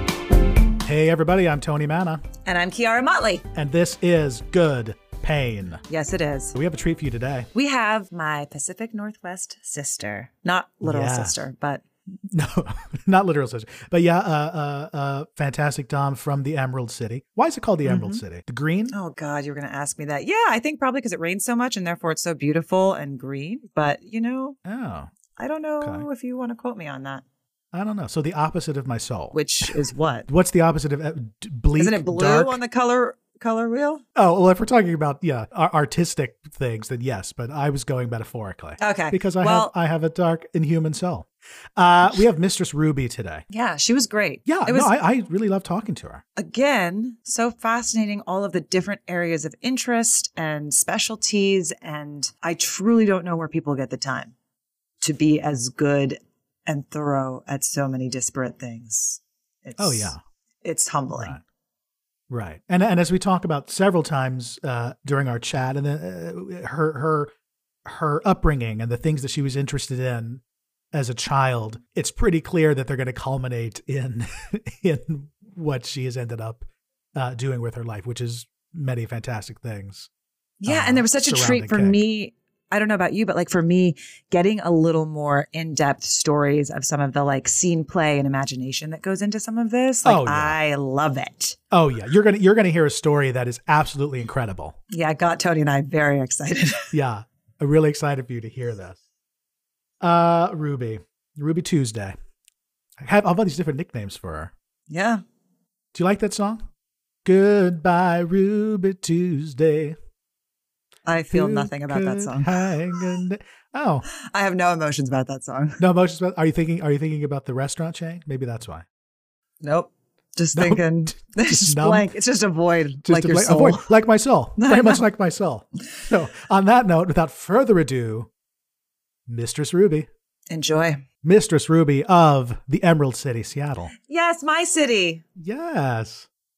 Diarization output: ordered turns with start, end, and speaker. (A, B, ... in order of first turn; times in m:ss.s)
0:00.8-0:02.2 A
0:02.5-0:03.4 B
0:03.6-0:05.8 A
0:05.9-0:06.6 B
0:06.5-0:07.5 A
0:07.6-0:11.8 B
0:10.8-0:11.4 A
0:12.3-0:19.0 A
0:17.8-0:18.2 B
0:18.9-0:24.6 B
0:24.6-0:25.1 A
0:25.4-0:27.2 B
0:25.8-0:26.1 A
0:27.7-0:32.6 A
0:29.3-0:30.3 B
0:31.8-0:34.0 B
0:34.2-0:43.4 A
0:38.8-0:39.7 B
0:43.5-0:44.9 B
0:44.5-0:46.2 A
0:46.4-0:54.3 B
0:55.0-1:00.1 B
0:59.8-1:00.2 A
1:00.6-1:01.4 B
1:01.2-1:01.4 A
1:02.3-1:07.3 A
1:07.9-1:10.4 A
1:10.9-1:16.6 A
1:17.2-1:20.1 A
1:20.6-1:31.6 B
1:20.7-1:22.0 A
1:30.0-1:30.6 A
1:31.7-1:34.8 A
1:34.9-1:36.9 B
1:36.9-1:39.0 A
1:40.0-1:42.2 A
1:43.0-1:44.5 A
1:44.9-1:45.2 B
1:45.9-1:46.6 A
1:47.2-1:50.0 A
1:51.1-1:53.0 B
1:51.3-1:54.1 A
1:54.3-1:55.8 B
1:55.8-1:58.8 A
1:59.6-2:03.8 B
2:00.5-2:02.1 A
2:03.0-2:08.3 A
2:04.6-2:05.0 B
2:09.3-2:10.1 A
2:10.5-2:11.0 B
2:11.2-2:13.9 A
2:14.1-2:15.2 B
2:15.4-2:16.3 A